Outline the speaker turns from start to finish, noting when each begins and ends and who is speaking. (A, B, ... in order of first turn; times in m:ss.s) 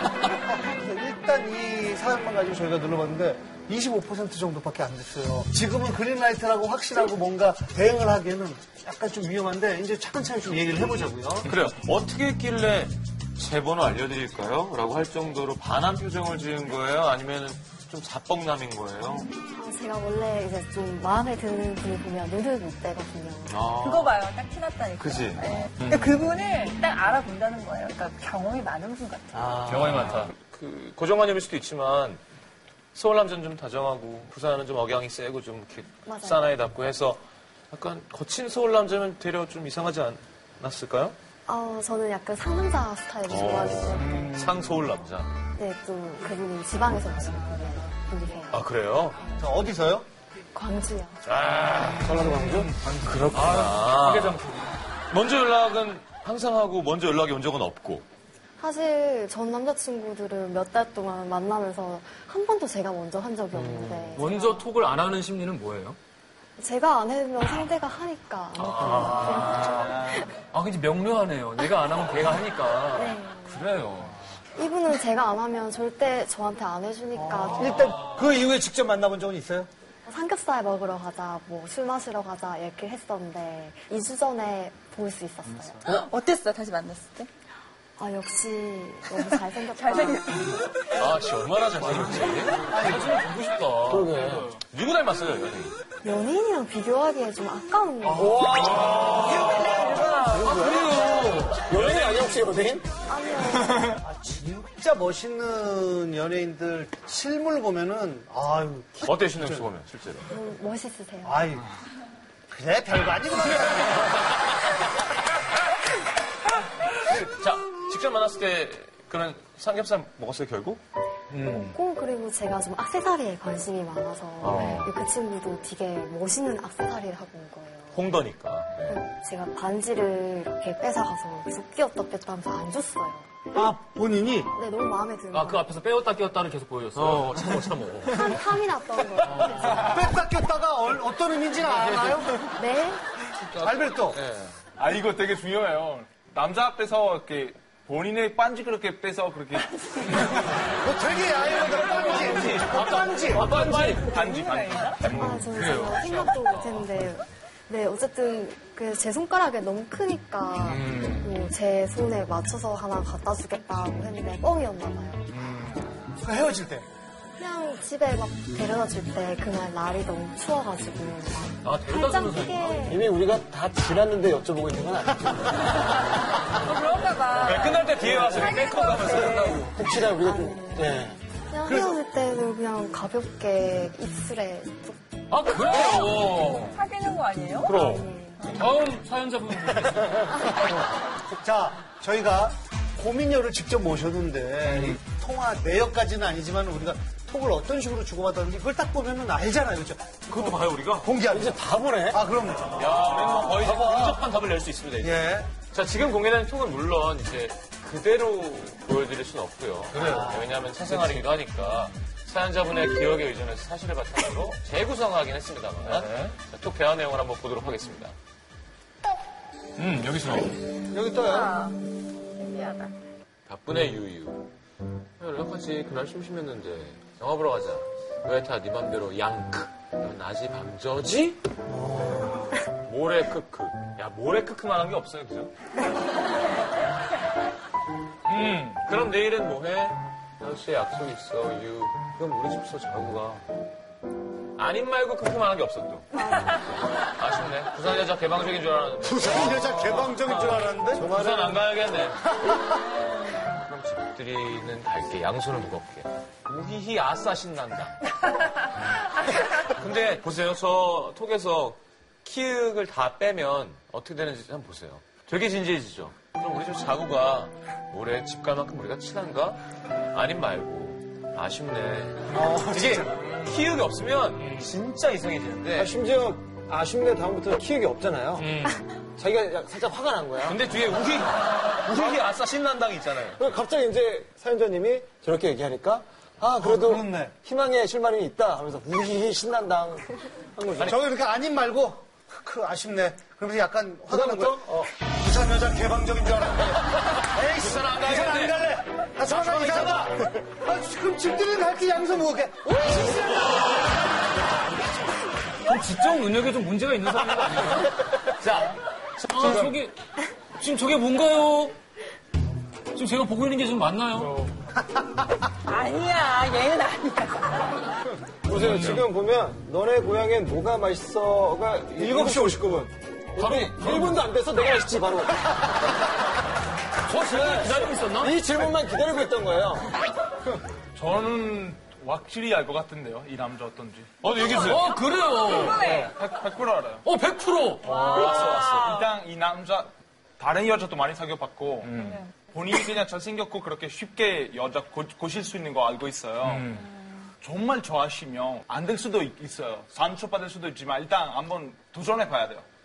0:00.6-0:11.5 A
0:11.4-0:19.3 B
0:19.6-0:23.8 C
0:23.5-0:24.2 B
0:23.8-0:29.7 D
0:25.0-0:25.4 B
0:25.8-0:26.2 E
0:29.4-0:30.3 E
0:29.5-0:32.2 B
0:33.0-0:41.2 B
0:36.1-0:36.6 C
0:41.5-0:44.3 C
0:43.3-0:45.3 B
0:45.6-0:48.6 C
0:48.5-0:49.2 B
0:49.4-0:50.1 A
0:50.5-0:51.2 C
0:51.2-0:54.4 B
0:52.0-0:52.8 F
0:52.7-0:54.7 E
0:55.1-0:58.1 B
0:58.6-1:04.7 C
1:03.6-1:04.1 B
1:04.1-1:06.0 E
1:06.6-1:10.3 C
1:08.5-1:14.1 E
1:13.0-1:13.6 C
1:14.6-1:18.0 C
1:17.2-1:19.7 A
1:20.1-1:25.8 C
1:25.8-1:27.3 D
1:28.0-1:30.5 C
1:29.7-1:30.6 D
1:31.0-1:32.7 B
1:32.7-1:33.2 A
1:32.7-1:34.4 E
1:33.9-1:34.5 F
1:34.7-1:35.8 B
1:36.0-1:38.4 C
1:38.1-1:42.9 F
1:39.1-1:39.6 B
1:40.4-1:42.0 E
1:43.1-1:44.0 C
1:44.0-1:49.6 A
1:49.0-1:50.3 B
1:50.3-1:51.5 C
1:51.2-1:51.6 A
1:52.5-1:54.2 A
1:57.1-2:00.8 B
2:01.4-2:08.2 C
2:04.4-2:04.9 B
2:07.9-2:09.0 B
2:08.8-2:13.6 C
2:13.5-2:14.5 A
2:14.5-2:15.6 C
2:15.3-2:18.4 E
2:17.0-2:18.2 B
2:18.1-2:19.7 C
2:19.2-2:19.8 E
2:19.7-2:22.4 A
2:21.6-2:22.2 B
2:22.6-2:23.0 C
2:23.4-2:24.6 B
2:23.6-2:24.2 A
2:24.8-2:30.5 G
2:30.8-2:33.5 A
2:31.8-2:32.7 G
2:32.2-2:34.2 B
2:33.2-2:35.1 G
2:34.0-2:35.0 D
2:35.1-2:36.9 E
2:35.2-2:45.5 C
2:40.7-2:41.3 E
2:45.4-2:45.7 E
2:46.2-2:46.9 A
2:47.4-2:53.1 C
2:51.6-2:52.9 E
2:52.8-2:55.9 F
2:56.5-2:59.5 D
2:57.5-2:59.7 B
2:57.5-2:58.6 F
2:59.1-3:01.2 F
2:59.9-3:05.0 C
3:05.3-3:06.8 E
3:05.7-3:06.1 D
3:06.7-3:07.7 D
3:07.7-3:08.0 B
3:07.7-3:08.5 C
3:08.5-3:10.3 E
3:11.4-3:20.4 A
3:20.3-3:21.1 B
3:21.0-3:21.6 A
3:21.3-3:22.3 F
3:22.1-3:24.3 A
3:22.8-3:38.2 B
3:25.0-3:25.5 A
3:30.0-3:30.7 A
3:35.8-3:36.3 E
3:39.8-3:40.5 E
3:40.9-3:41.5 A
3:41.0-3:41.8 D
3:42.4-3:43.0 D
3:43.5-3:44.5 B
3:45.2-3:51.4 B
3:51.7-3:52.6 A
3:52.8-3:55.5 B
3:58.3-3:58.8 E
3:58.4-4:03.4 B
4:04.6-4:06.6 B
4:06.2-4:06.6 C
4:07.2-4:12.2 B
4:09.0-4:11.2 A
4:11.2-4:11.6 F
4:12.4-4:12.7 A
4:13.4-4:18.0 B
4:19.2-4:29.6 B
4:30.1-4:35.9 B
4:32.3-4:33.2 A
4:34.4-4:34.7 E
4:35.8-4:38.6 F
4:38.4-4:38.8 B
4:39.2-4:40.7 F
4:40.4-4:43.4 B
4:41.9-4:42.2 F
4:43.4-4:51.0 F
4:46.6-4:47.3 A
4:50.8-5:02.8 A
4:54.1-4:54.9 F
4:57.0-4:58.7 B
4:59.2-5:00.2 B
5:05.6-5:07.9 E
5:08.4-5:09.8 B
5:09.2-5:09.9 E
5:10.6-5:11.8 E
5:12.9-5:14.5 E
5:15.7-5:17.9 D
5:18.4-5:25.7 F
5:18.6-5:19.0 E
5:22.0-5:22.8 A
5:23.4-5:24.2 E
5:27.1-5:28.7 E
5:27.1-5:29.9 F
5:31.0-5:34.7 G
5:34.2-5:34.9 B
5:34.2-5:36.2 E
5:35.6-5:36.1 D
5:36.2-5:37.0 G
5:37.0-5:38.4 E
5:37.9-5:39.0 D
5:38.1-5:39.0 B
5:38.4-5:41.9 G
5:41.8-5:42.2 E
5:42.0-5:42.3 D
5:42.4-5:46.6 G
5:46.5-5:46.8 E
5:47.4-5:52.6 G